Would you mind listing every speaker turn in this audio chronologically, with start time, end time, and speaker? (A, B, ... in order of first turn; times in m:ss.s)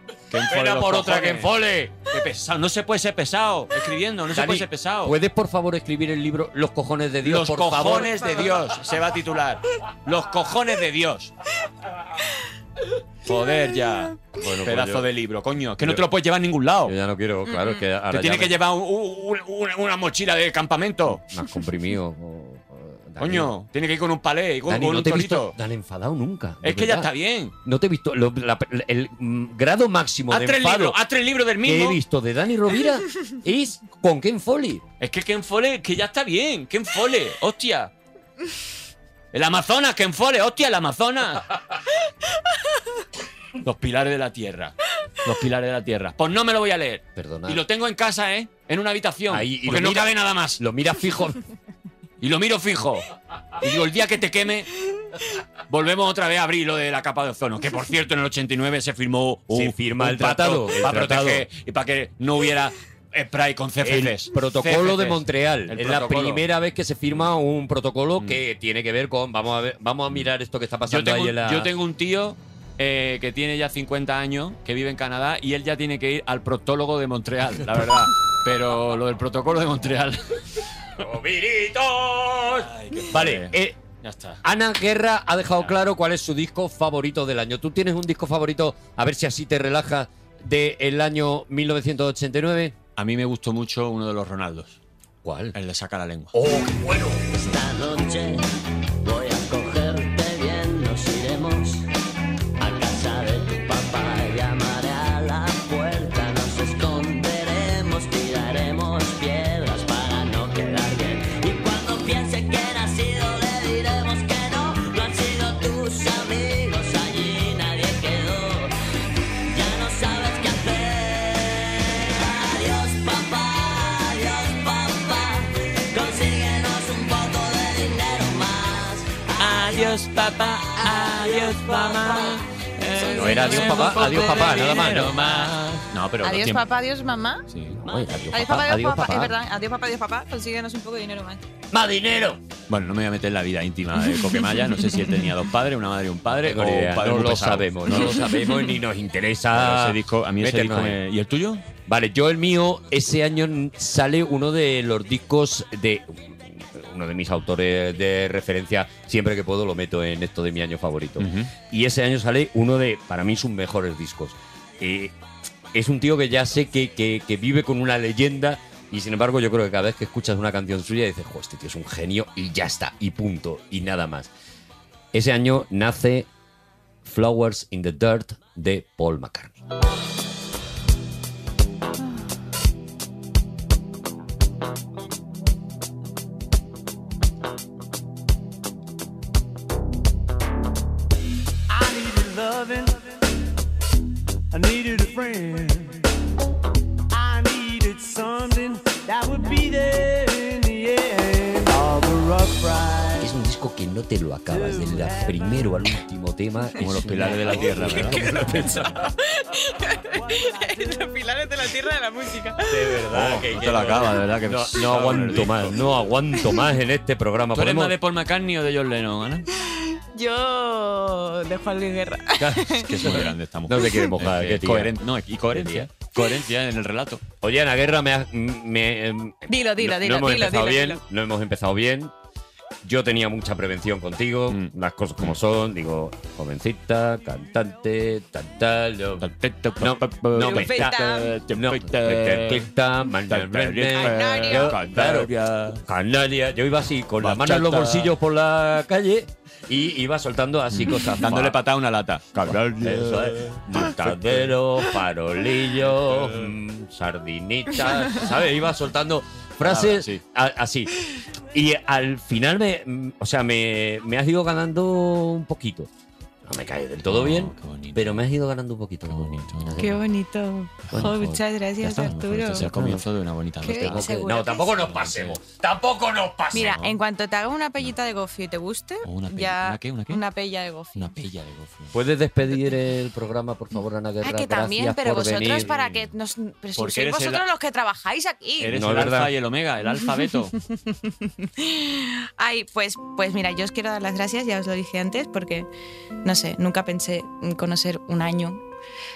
0:00.3-0:05.2 A
0:00.4-0:01.9 B
0:04.3-0:08.4 B
0:07.2-0:11.3 A
0:08.0-0:08.6 C
0:13.2-0:16.9 A
0:14.3-0:15.1 B
0:16.8-0:18.6 B
0:17.5-0:17.8 C
0:18.1-0:21.2 A
0:21.1-0:23.5 B
0:23.2-0:25.6 A
0:24.6-0:27.1 B
0:26.6-0:27.5 A
0:27.6-0:31.0 B
0:30.3-0:32.0 A
0:31.6-0:34.8 B
0:35.0-0:37.9 A
0:39.3-0:41.6 A
0:43.6-0:50.6 A
0:47.2-0:47.6 B
0:49.3-0:51.4 B
0:52.2-0:53.1 A
0:53.6-0:54.7 A
0:55.7-1:06.4 A
0:59.5-1:01.4 B
1:03.8-1:11.7 B
1:10.9-1:20.4 A
1:21.0-1:23.8 B
1:22.4-1:24.4 A
1:24.4-1:32.8 B
1:33.0-1:34.8 A
1:35.2-1:35.5 B
1:35.5-1:36.3 A
1:36.3-1:37.4 B
1:37.4-1:38.4 D
1:39.0-1:41.8 D
1:42.6-1:58.7 D
1:59.5-2:09.6 D
2:09.4-2:16.6 A
2:11.0-2:12.4 D
2:12.9-2:15.4 C
2:13.1-2:15.2 B
2:16.2-2:17.4 C
2:17.5-2:17.8 A
2:17.8-2:19.3 B
2:18.3-2:21.4 C
2:21.7-2:22.4 B
2:22.7-2:28.3 A
2:26.3-2:31.0 B
2:28.3-2:28.7 C
2:29.5-2:31.6 A
2:31.8-2:45.2 B
2:41.2-2:41.5 A
2:45.7-2:54.3 B
2:55.1-2:56.3 B
2:57.0-2:59.6 B
3:11.7-3:13.0 E
3:14.5-3:16.0 E
3:17.2-3:23.0 E
3:23.2-3:28.9 B
3:24.5-3:25.3 E
3:26.8-3:28.8 A
3:27.8-3:32.8 C
3:32.6-3:37.9 B
3:33.1-3:35.8 A
3:37.5-3:39.4 A
3:39.5-3:43.3 C
3:42.4-3:44.9 B
3:42.8-3:47.2 A
3:45.5-3:45.9 B
3:47.4-3:52.1 B
3:49.5-3:51.0 C
3:52.8-3:59.3 B
3:54.5-3:55.4 A
3:59.2-4:02.7 A
3:59.8-4:01.0 B
4:00.4-4:01.3 C
4:01.5-4:11.6 B
4:03.3-4:05.8 A
4:03.9-4:04.7 C
4:07.2-4:08.1 A
4:10.7-4:14.6 A
4:12.5-4:20.9 B
4:15.9-4:16.5 A
4:19.6-4:20.2 A
4:21.5-4:25.9 B
4:26.4-4:30.0 B
4:27.0-4:28.2 A
4:29.0-4:29.9 A
4:29.8-4:32.7 C
4:30.9-4:34.0 A
4:32.6-4:33.0 B
4:33.6-4:34.8 C
4:33.8-4:36.8 B
4:34.8-4:35.4 A
4:36.5-4:37.0 A
4:36.5-4:41.1 C
4:39.0-4:40.2 A
4:40.9-4:41.9 A
4:41.9-4:45.7 B
4:44.2-4:48.7 C
4:45.5-4:46.0 A
4:46.7-4:47.4 A
4:48.6-4:50.6 A
4:48.6-4:49.3 B
4:50.9-4:55.7 C
4:56.2-4:58.6 C